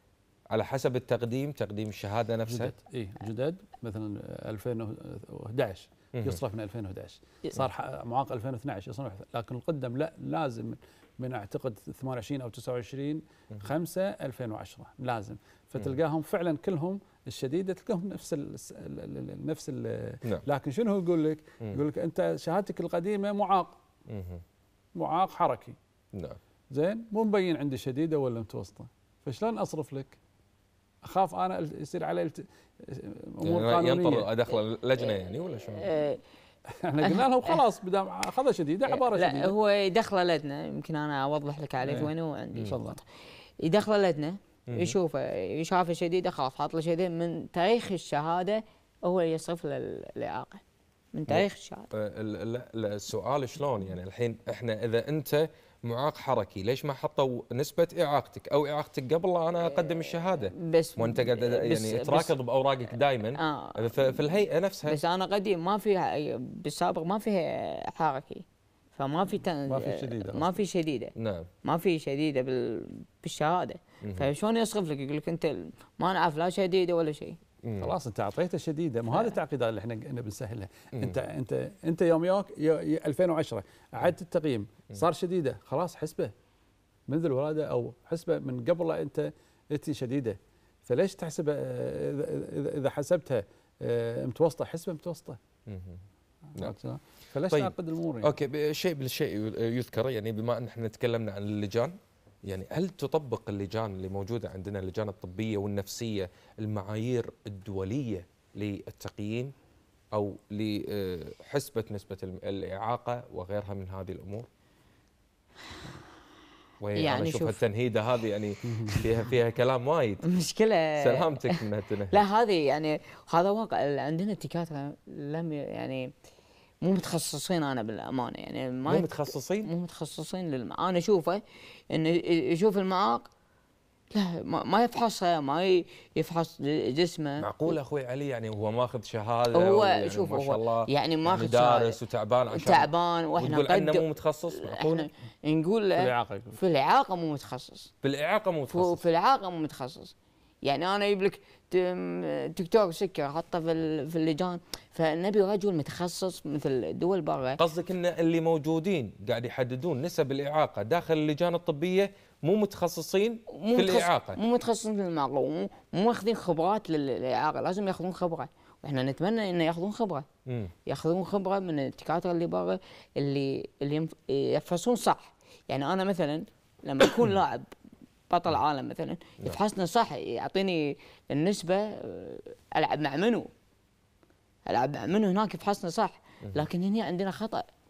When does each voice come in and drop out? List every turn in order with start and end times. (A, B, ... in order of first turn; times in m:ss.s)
0:00.5-0:02.7 A
0:02.5-0:23.8 B
0:24.1-0:24.4 A
0:25.0-0:25.8 B
0:26.7-0:30.2 B
0:31.1-0:34.3 B
0:33.4-0:35.9 A
0:35.0-0:36.2 C
0:36.8-0:39.5 B
0:37.0-0:37.6 C
0:38.9-0:43.1 C
0:41.8-0:43.0 B
0:43.6-0:50.6 C
0:44.7-0:45.0 A
0:51.1-0:51.9 C
0:51.3-1:05.0 A
0:59.6-1:02.4 C
1:03.4-1:04.3 C
1:04.9-1:11.1 C
1:09.7-1:10.6 B
1:11.2-1:11.5 A
1:11.6-1:17.4 C
1:14.0-1:14.3 A
1:17.6-1:17.9 A
1:17.8-1:26.3 B
1:19.1-1:19.4 C
1:27.1-1:35.4 B
1:35.7-1:36.0 A
1:36.6-1:38.3 B
1:37.5-1:49.5 A
1:50.1-1:54.5 A
1:56.8-2:00.2 A
1:57.0-1:57.6 C
1:58.7-1:58.9 B
2:00.3-2:01.6 C
2:01.0-2:02.2 A
2:02.1-2:06.1 C
2:06.8-2:13.3 C
2:08.9-2:09.7 A
2:14.1-2:17.8 C
2:17.4-2:25.1 A
2:19.5-2:22.0 C
2:22.5-2:24.0 C
2:24.6-2:27.9 C
2:26.0-2:26.6 B
2:28.0-2:29.0 A
2:28.7-2:37.6 C
2:37.6-2:44.4 A
2:43.5-2:50.3 C
2:50.5-2:50.7 A
2:50.9-2:57.7 C
2:58.3-3:03.5 C
3:04.7-3:07.7 C